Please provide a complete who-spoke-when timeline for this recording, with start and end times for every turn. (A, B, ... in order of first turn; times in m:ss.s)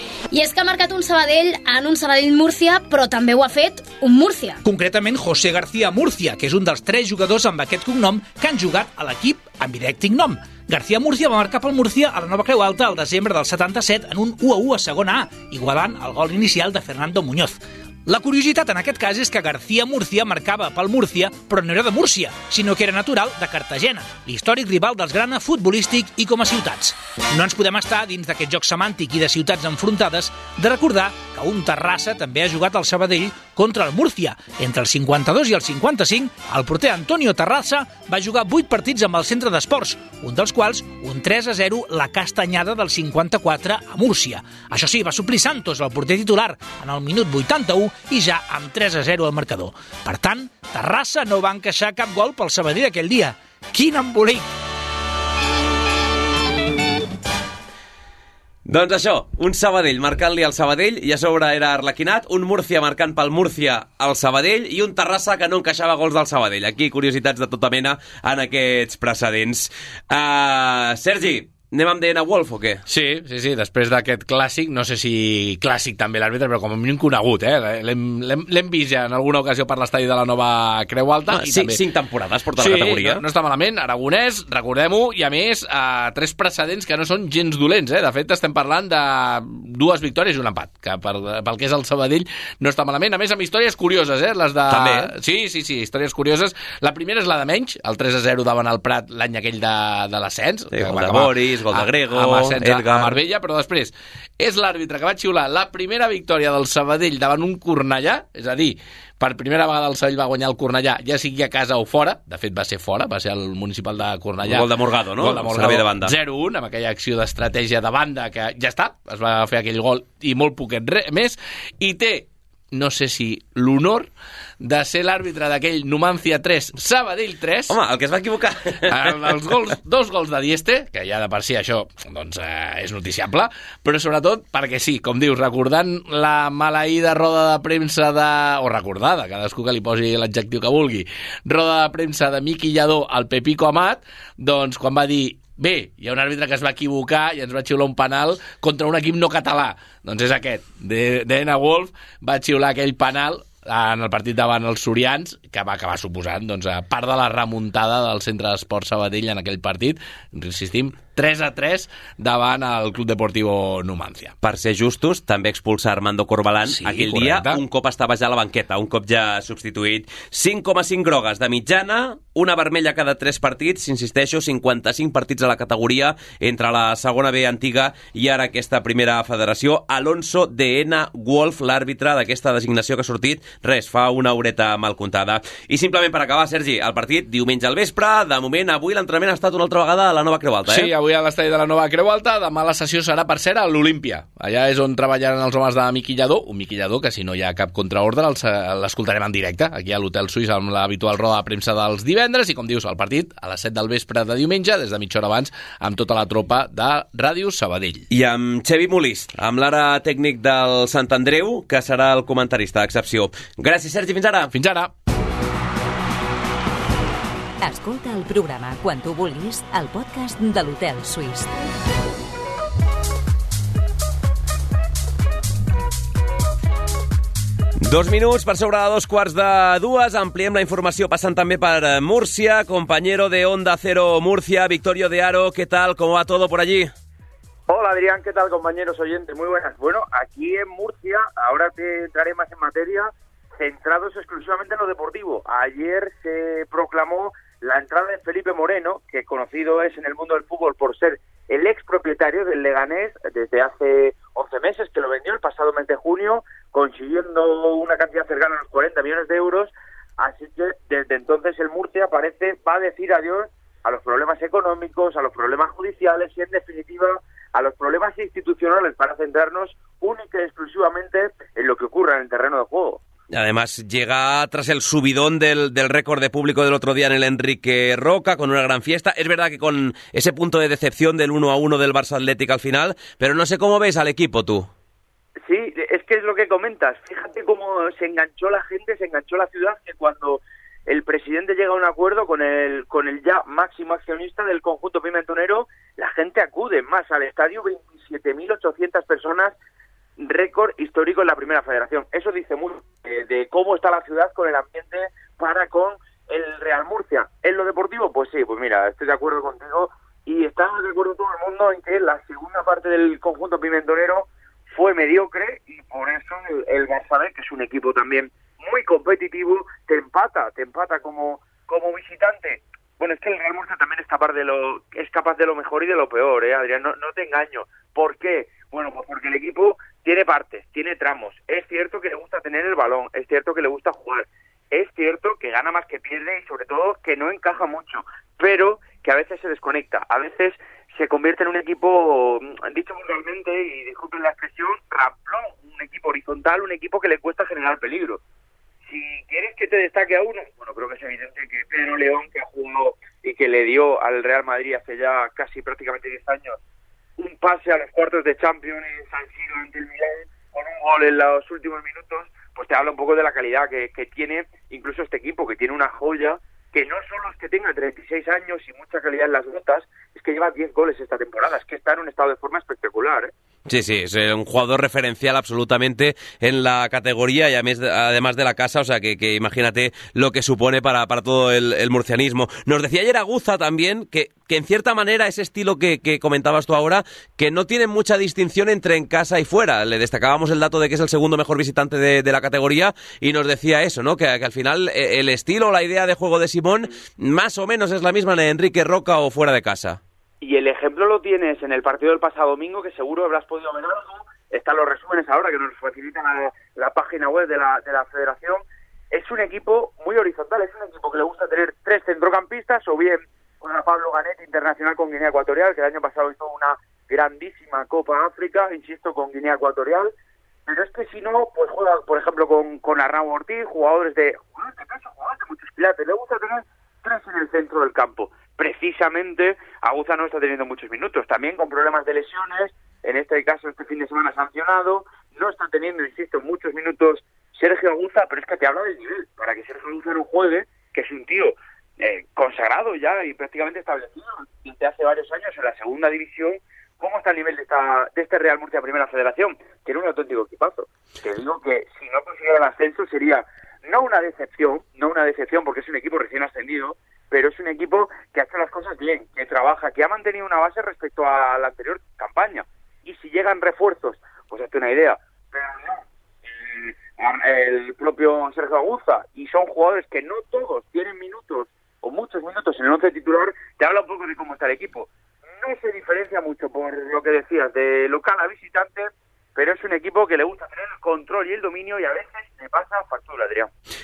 0:00.3-0:04.6 A
0:04.6-0:54.5 B
0:58.7-1:12.8 C
1:12.9-1:21.8 D
1:21.3-1:23.2 C
1:22.6-2:04.1 D
1:34.7-1:35.1 C
1:40.7-1:43.2 C
1:54.5-1:56.1 C
2:04.6-2:07.8 D
2:07.7-2:09.3 C
2:08.9-2:44.4 D
2:44.4-3:10.9 C
2:46.7-2:47.6 D
3:10.7-3:28.1 D
3:28.1-3:34.5 C
3:34.5-3:34.9 D
3:37.6-3:41.5 E
3:47.8-3:56.9 C
3:57.7-4:33.0 F
4:33.3-4:44.7 C
4:45.4-4:59.6 F
5:00.2-5:48.2 F
5:48.9-5:56.6 F
5:57.2-6:13.3 F
6:13.7-6:40.0 C
6:40.4-7:00.1 F
7:00.7-7:55.1 F
7:55.6-8:03.7 F